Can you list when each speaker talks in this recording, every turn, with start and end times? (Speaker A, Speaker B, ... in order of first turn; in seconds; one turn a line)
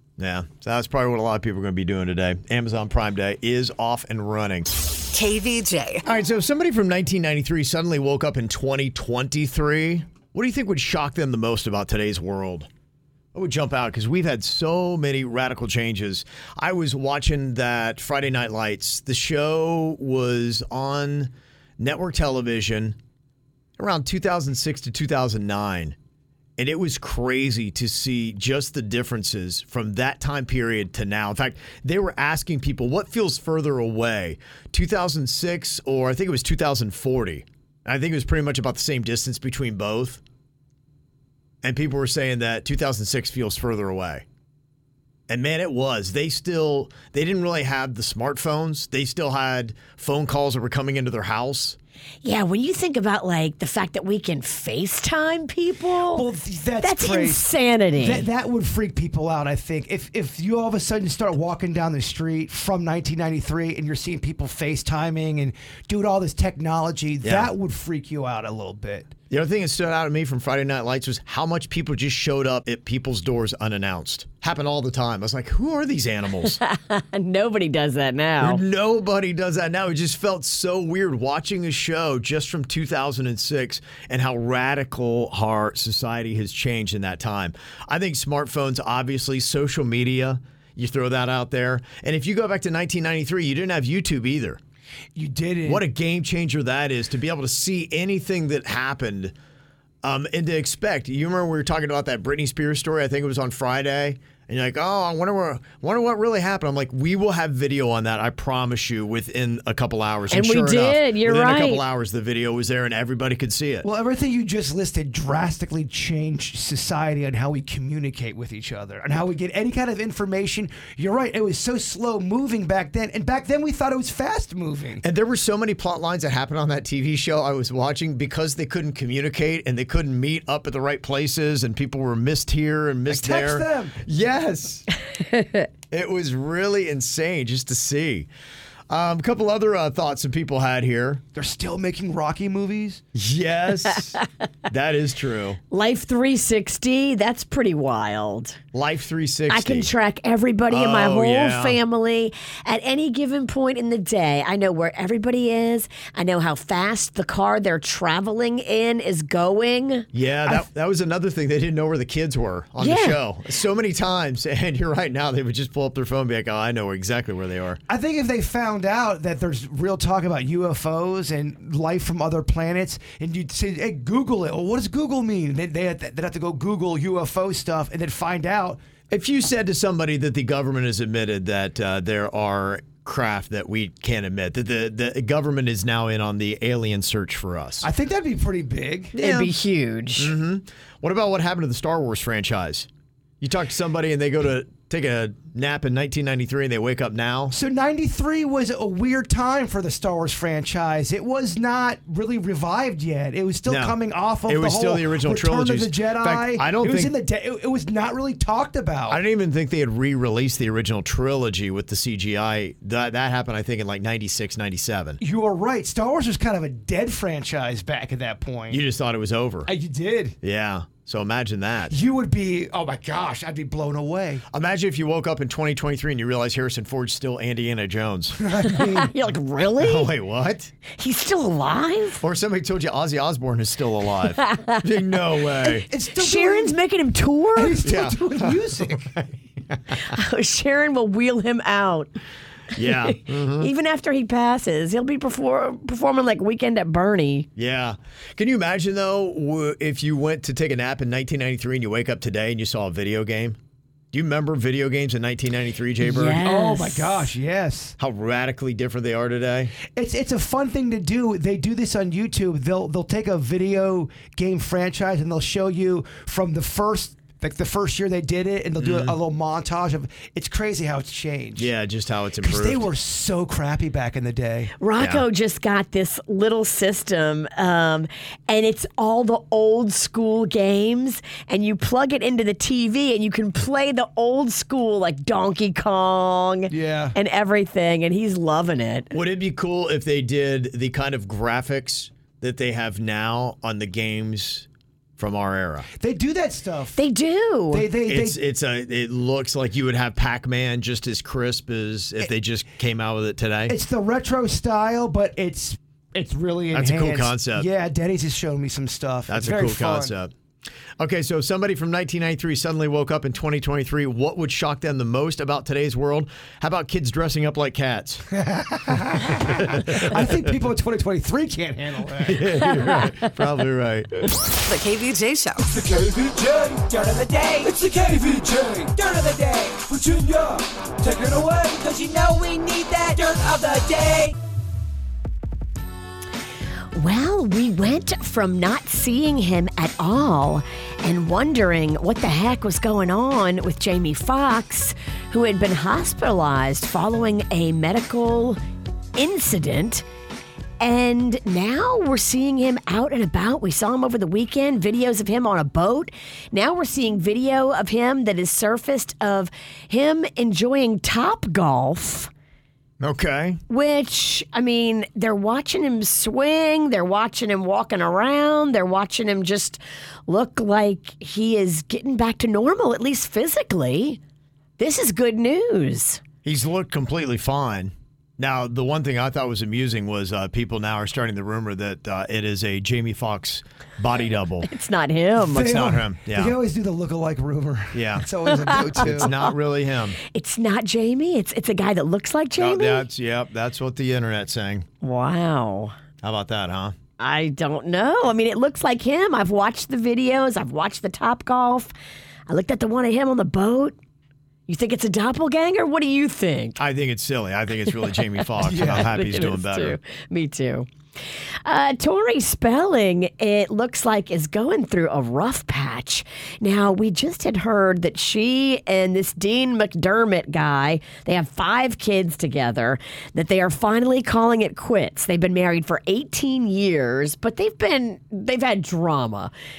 Speaker A: 0.2-4.7
Speaker B: 5.1-6.0
Speaker A: 6.0-12.7
Speaker A: 13.3-23.0
Speaker A: 23.8-25.9
Speaker A: 26.6-40.2
Speaker A: 41.6-44.2
Speaker A: 45.3-51.8
Speaker C: 52.2-56.2
Speaker D: 56.1-69.1
Speaker C: 56.8-58.2
Speaker A: 67.2-67.5
Speaker A: 69.3-76.6
Speaker C: 76.4-78.6
Speaker A: 78.4-94.6
Speaker D: 95.1-95.8
Speaker A: 95.6-99.3
Speaker A: 100.0-113.9
Speaker C: 110.3-111.8
Speaker D: 113.8-125.0
Speaker A: 125.0-134.8
Speaker D: 133.1-134.0
Speaker C: 135.2-135.7
Speaker A: 135.9-138.3
Speaker A: 138.9-141.2
Speaker D: 141.3-143.0
Speaker A: 143.1-145.6
Speaker C: 145.7-148.6
Speaker A: 148.7-149.9
Speaker C: 149.5-160.1
Speaker A: 150.7-151.8
Speaker A: 160.1-167.8
Speaker C: 162.8-163.2
Speaker D: 167.9-178.8
Speaker A: 179.1-187.9
Speaker D: 187.8-189.1
Speaker A: 189.1-189.5
Speaker C: 189.2-190.3
Speaker A: 190.2-192.9
Speaker A: 193.4-197.5
Speaker D: 197.5-209.2
Speaker A: 203.7-207.1
Speaker A: 209.1-215.2
Speaker D: 215.2-218.8
Speaker A: 218.7-219.7
Speaker D: 219.7-220.3
Speaker A: 220.4-221.9
Speaker D: 221.9-224.4
Speaker A: 224.5-228.4
Speaker D: 228.4-229.1
Speaker C: 228.7-230.1
Speaker A: 229.8-230.7
Speaker C: 230.9-232.2
Speaker A: 232.2-235.9
Speaker C: 234.4-234.8
Speaker D: 235.6-236.8
Speaker C: 236.2-237.8
Speaker D: 237.5-239.1
Speaker A: 237.8-239.8
Speaker C: 240.1-242.1
Speaker A: 242.7-243.7
Speaker C: 242.8-247.5
Speaker A: 247.6-253.6
Speaker A: 254.1-256.4
Speaker C: 256.0-257.3
Speaker D: 256.4-257.9
Speaker A: 258.0-259.7
Speaker D: 259.9-271.7
Speaker A: 268.8-269.2
Speaker A: 271.6-272.9
Speaker D: 272.4-274.7
Speaker C: 274.8-289.1
Speaker A: 275.0-275.2
Speaker D: 286.7-287.1
Speaker A: 289.1-294.7
Speaker A: 295.2-295.9
Speaker D: 296.0-297.0
Speaker C: 296.9-297.9
Speaker D: 297.7-298.4
Speaker A: 298.1-303.8
Speaker D: 303.7-310.1
Speaker A: 306.7-307.7
Speaker A: 309.3-310.3
Speaker A: 311.0-318.2
Speaker D: 318.3-322.7
Speaker A: 319.4-320.4
Speaker A: 322.2-324.2
Speaker B: 324.6-325.7
Speaker E: 325.7-334.3
Speaker C: 336.9-348.6
Speaker C: 349.1-350.0
Speaker C: 350.8-362.3
Speaker A: 363.0-363.6
Speaker C: 363.7-374.2
Speaker C: 374.8-376.2
Speaker A: 376.4-384.7
Speaker C: 384.6-385.7
Speaker D: 385.4-389.3
Speaker A: 385.5-386.6
Speaker A: 387.9-388.3
Speaker C: 388.5-389.5
Speaker A: 388.9-390.2
Speaker C: 390.3-393.1
Speaker A: 392.6-394.9
Speaker C: 395.0-395.9
Speaker A: 396.2-396.9
Speaker C: 397.2-401.9
Speaker C: 402.5-403.9
Speaker C: 404.7-406.8
Speaker A: 406.8-410.0
Speaker C: 408.4-410.9
Speaker D: 408.6-409.1
Speaker C: 411.6-429.5